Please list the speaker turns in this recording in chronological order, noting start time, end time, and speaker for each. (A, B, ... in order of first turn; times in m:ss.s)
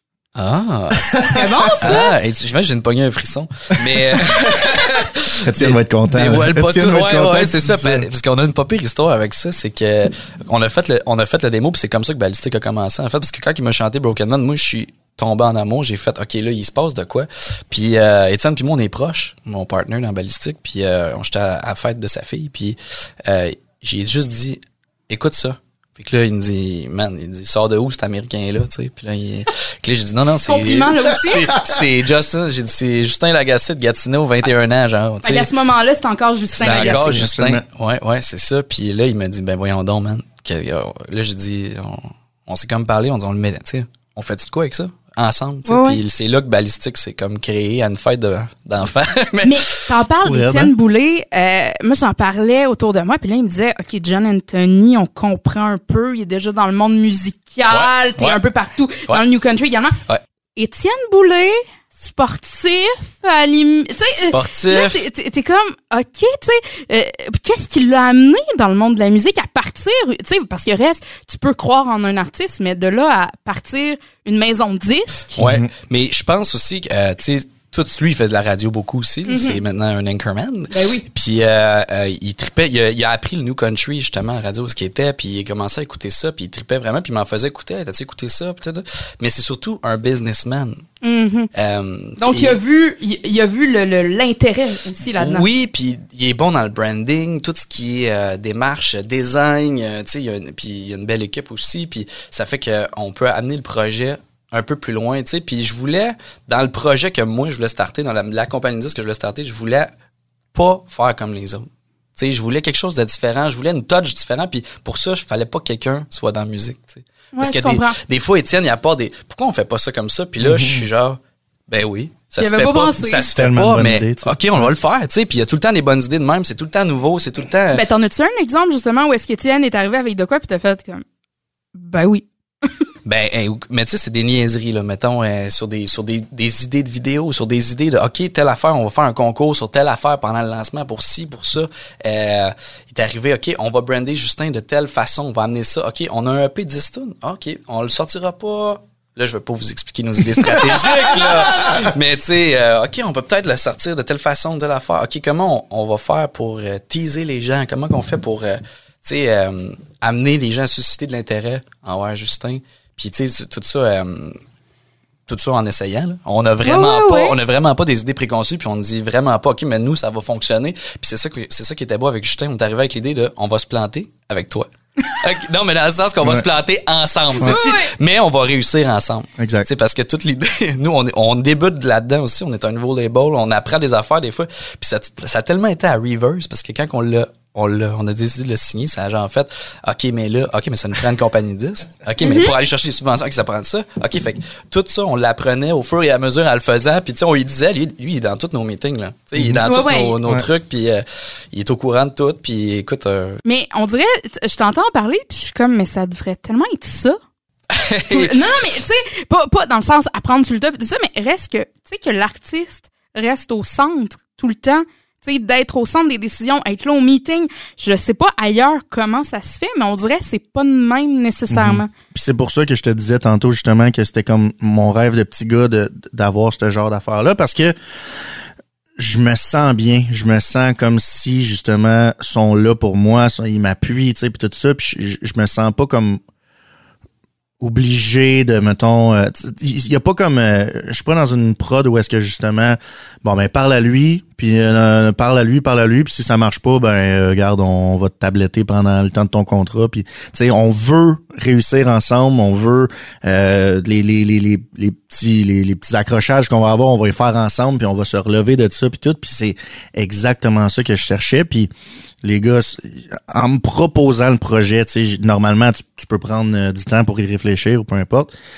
0:00.4-0:01.1 A
0:01.0-0:02.0 B
0:01.2-0:02.1 C
0:01.8-0:35.5 A
0:05.4-0:08.0 B
0:30.4-0:31.5 C
0:35.2-0:37.2 C
0:36.5-0:49.8 A
0:36.6-0:37.6 B
0:45.6-0:46.0 C
0:49.4-1:00.0 C
0:50.2-0:50.7 B
0:57.7-0:58.4 A
1:00.6-1:15.4 C
1:04.1-1:05.0 A
1:15.4-1:30.8 A
1:15.4-1:15.7 B
1:19.2-1:19.6 C
1:20.7-1:21.0 C
1:31.0-1:31.5 C
1:31.5-1:32.6 A
1:32.2-1:35.4 C
1:35.2-1:49.9 A
1:50.5-2:01.2 A
1:57.3-1:58.0 C
2:00.4-2:00.9 B
2:01.7-2:07.8 A
2:02.4-2:03.3 C
2:03.3-2:04.7 B
2:07.7-2:11.0 C
2:11.7-2:12.9 C
2:13.0-2:44.4 A
2:31.2-2:31.7 B
2:31.4-2:31.9 C
2:45.3-3:23.4 A
2:46.6-2:47.4 C
2:57.4-2:57.9 C
2:59.4-2:59.7 B
3:12.2-3:12.5 C
3:19.4-3:19.6 B
3:19.6-3:20.2 C
3:23.4-3:27.2 C
3:27.7-3:28.3 A
3:28.1-3:41.9 C
3:41.5-3:47.7 B
3:49.0-3:56.2 B
3:57.6-4:21.7 B
4:22.2-4:28.3 B